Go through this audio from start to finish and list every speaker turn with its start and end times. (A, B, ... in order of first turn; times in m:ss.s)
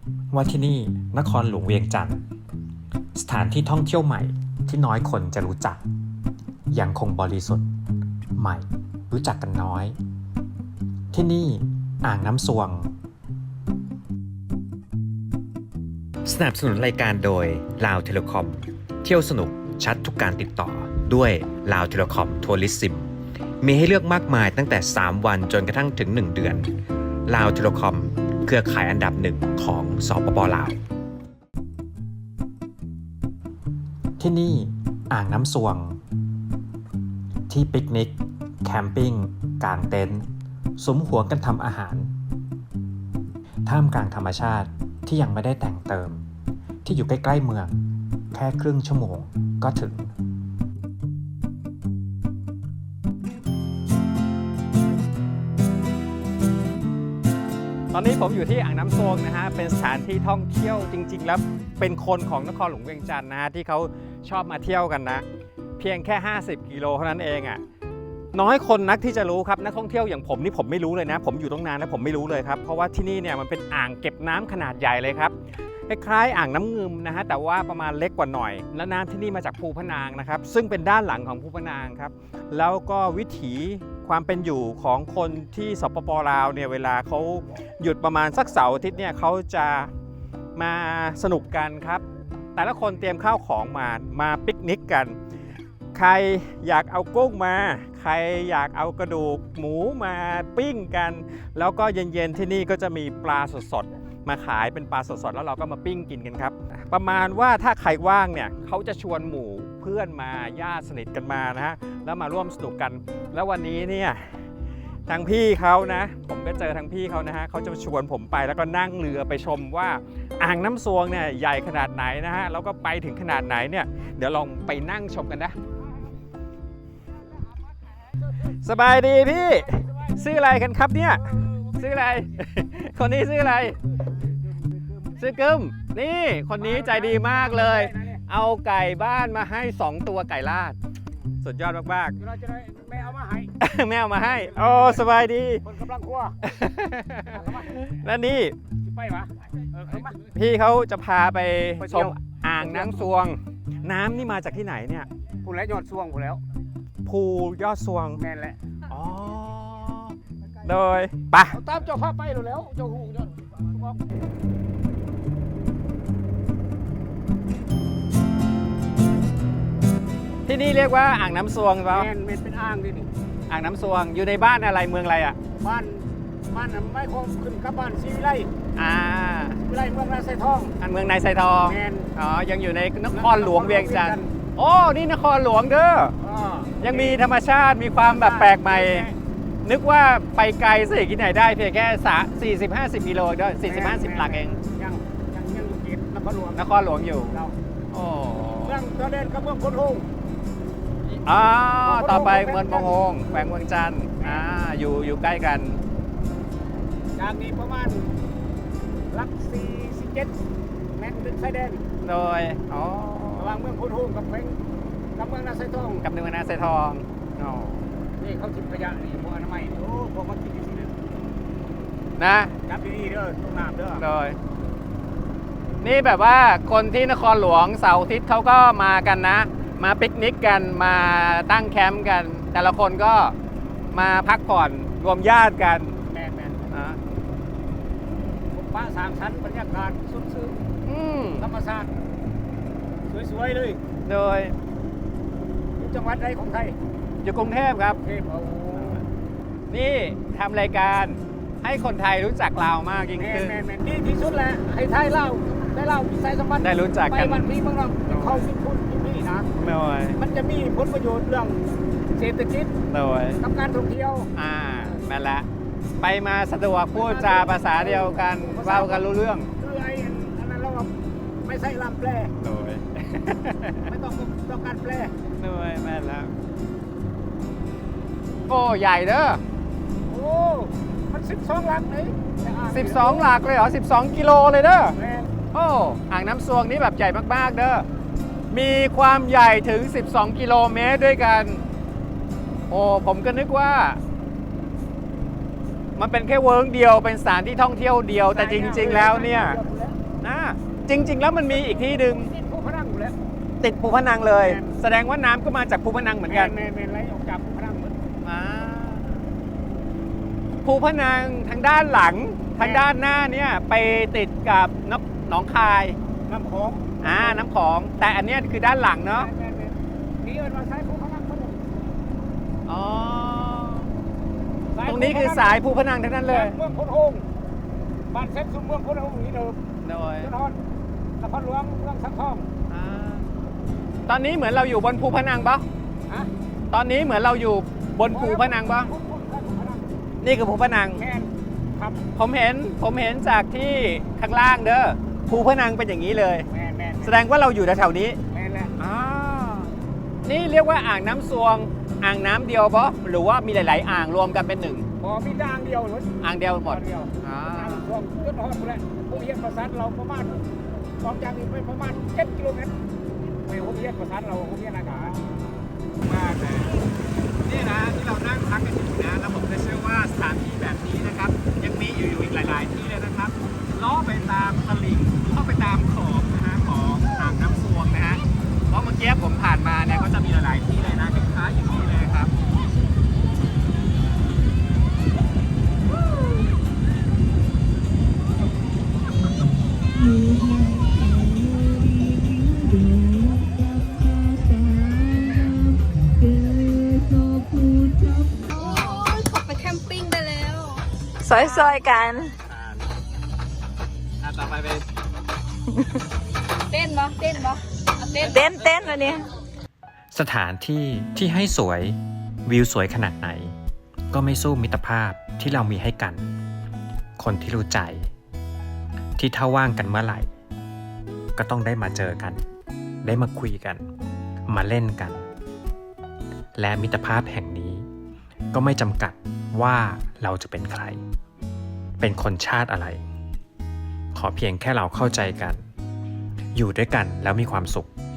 0:00.3-0:02.2 A
0:03.2-0:05.8 A
0:06.7-0:07.7 A
0:08.4-0:10.0 A
0:11.1-0:12.9 A
0:16.2-0:23.1 A
0:23.6-0:26.7 A
0:27.3-0:30.8 A
0:34.2-0:36.0 A
0:37.5-0:40.3 A
0:40.8-0:42.1 A
0:43.6-0:46.2 A
0:46.8-0:47.7 A
0:48.3-0:50.1 A
0:57.9-1:05.2 B
1:02.8-1:03.0 A
1:05.8-1:07.6 B
1:06.3-1:07.2 A
1:08.3-1:15.2 B
1:09.1-1:11.6 A
1:15.9-1:29.9 B
1:15.9-1:16.7 A
1:17.8-1:19.1 A
1:19.9-1:20.2 A
1:30.6-1:32.0 B
1:32.6-1:35.1 B
1:36.0-1:44.8 B
1:40.4-1:41.0 A
1:42.9-1:43.7 A
1:44.5-1:52.9 A
1:45.4-1:51.3 B
1:51.8-1:53.5 B
1:53.4-1:54.1 A
1:55.1-1:56.9 B
1:55.5-2:00.0 A
1:57.5-1:59.8 B
2:00.4-2:00.8 B
2:00.5-2:05.5 A
2:01.4-2:02.5 B
2:03.0-2:05.4 B
2:08.6-2:13.7 B
2:09.7-2:10.1 C
2:15.2-2:20.7 B
2:16.6-2:18.2 C
2:20.5-2:20.7 A
2:21.4-2:22.1 B
2:22.2-2:23.5 C
2:23.6-2:25.6 B
2:24.3-2:25.0 C
2:25.6-2:26.4 C
2:26.5-2:28.5 B
2:27.3-2:27.9 C
2:28.9-2:30.2 C
2:30.3-2:35.1 B
2:30.7-2:31.0 A
2:31.8-2:32.9 C
2:35.4-2:36.4 C
2:37.0-2:38.2 B
2:38.2-2:38.6 C
2:38.9-2:40.0 B
2:39.5-2:39.9 A
2:40.7-2:41.5 B
2:41.5-2:44.0 C
2:50.5-2:52.1 B
2:51.9-2:53.1 C
2:53.5-2:55.3 B
2:55.6-2:58.5 C
2:58.8-2:59.6 B
2:59.6-3:00.7 C
3:00.8-3:06.1 B
3:01.6-3:02.1 C
3:03.1-3:04.3 C
3:06.2-3:07.2 C
3:06.8-3:09.0 B
3:08.0-3:09.1 C
3:09.6-3:14.6 B
3:13.6-3:17.5 C
3:16.6-3:17.4 B
3:17.9-3:18.8 B
3:18.5-3:20.0 C
3:21.2-3:25.8 B
3:21.8-3:23.4 C
3:24.2-3:24.4 C
3:27.2-3:28.1 C
3:29.1-3:30.3 C
3:30.9-3:31.8 C
3:32.0-3:33.6 B
3:33.4-3:34.6 C
3:35.2-3:36.0 C
3:36.0-3:37.8 B
3:38.2-3:40.9 C
3:42.2-3:42.5 B
3:42.6-3:44.0 C
3:44.0-3:44.4 B
3:45.8-3:53.3 B
3:53.9-3:56.0 B
3:56.1-3:56.7 C
3:56.7-3:57.0 B
3:58.5-4:00.6 C
4:00.9-4:01.4 B
4:01.4-4:01.9 C
4:03.1-4:03.8 C
4:04.1-4:04.5 B
4:05.8-4:06.7 C
4:07.2-4:08.0 B
4:08.0-4:09.0 C
4:08.7-4:09.0 B
4:09.7-4:13.6 B
4:13.2-4:19.5 C
4:16.6-4:17.5 B
4:18.1-4:18.5 B
4:19.6-4:20.2 B
4:20.2-4:22.7 C
4:22.9-4:23.4 B
4:23.4-4:24.3 C
4:24.4-4:25.4 B
4:26.0-4:29.5 B
4:26.9-4:29.1 C
4:29.6-4:30.9 C
4:31.4-4:32.3 C
4:32.4-4:33.8 B
4:33.9-4:35.1 C
4:35.4-4:36.3 B
4:38.5-4:39.4 B
4:40.1-4:43.3 C
4:42.7-4:44.9 B
4:45.0-4:45.3 C
4:45.5-4:47.8 B
4:48.5-4:51.6 B
4:52.7-4:54.0 B
4:56.0-4:59.6 B
4:58.2-5:00.0 C
5:00.2-5:02.3 B
5:01.5-5:03.1 C
5:03.6-5:06.5 B
5:04.3-5:04.7 C
5:06.2-5:08.0 C
5:08.2-5:09.2 B
5:10.6-5:16.0 B
5:12.6-5:12.9 C
5:16.3-5:17.4 C
5:17.0-5:19.3 B
5:19.1-5:21.9 C
5:22.6-5:23.9 B
5:24.7-5:25.6 C
5:24.8-5:26.5 B
5:26.2-5:27.2 C
5:28.1-5:29.6 C
5:29.8-5:30.3 B
5:30.2-5:30.6 C
5:31.2-5:32.5 C
5:32.7-5:33.2 B
5:34.1-5:35.6 B
5:36.7-5:38.9 B
5:38.1-5:39.9 C
5:40.2-5:41.0 B
5:40.9-5:42.0 C
5:42.2-5:46.4 B
5:46.5-5:47.2 C
5:47.0-5:48.2 B
5:48.3-5:48.7 C
5:48.8-5:49.7 B
5:50.2-5:54.9 B
5:55.0-6:00.4 C
5:56.2-5:57.8 B
6:01.0-6:02.7 C
6:03.4-6:05.2 C
6:06.0-6:06.7 B
6:07.4-6:22.3 B
6:34.6-6:34.9 D
6:36.2-6:36.7 D
6:37.5-6:38.1 D
6:38.4-6:40.8 E
6:41.2-6:42.3 D
6:44.2-6:44.8 B
6:46.7-6:48.8 E
6:48.3-6:49.3 D
6:50.1-6:53.5 A
6:54.1-6:56.2 A
6:57.2-6:58.1 A
6:59.2-7:00.3 A
7:01.4-7:02.4 A
7:03.0-7:03.8 A
7:04.5-7:05.3 A
7:06.6-7:07.9 A
7:08.5-7:11.0 A
7:12.0-7:13.0 A
7:14.1-7:15.6 A
7:16.5-7:17.9 A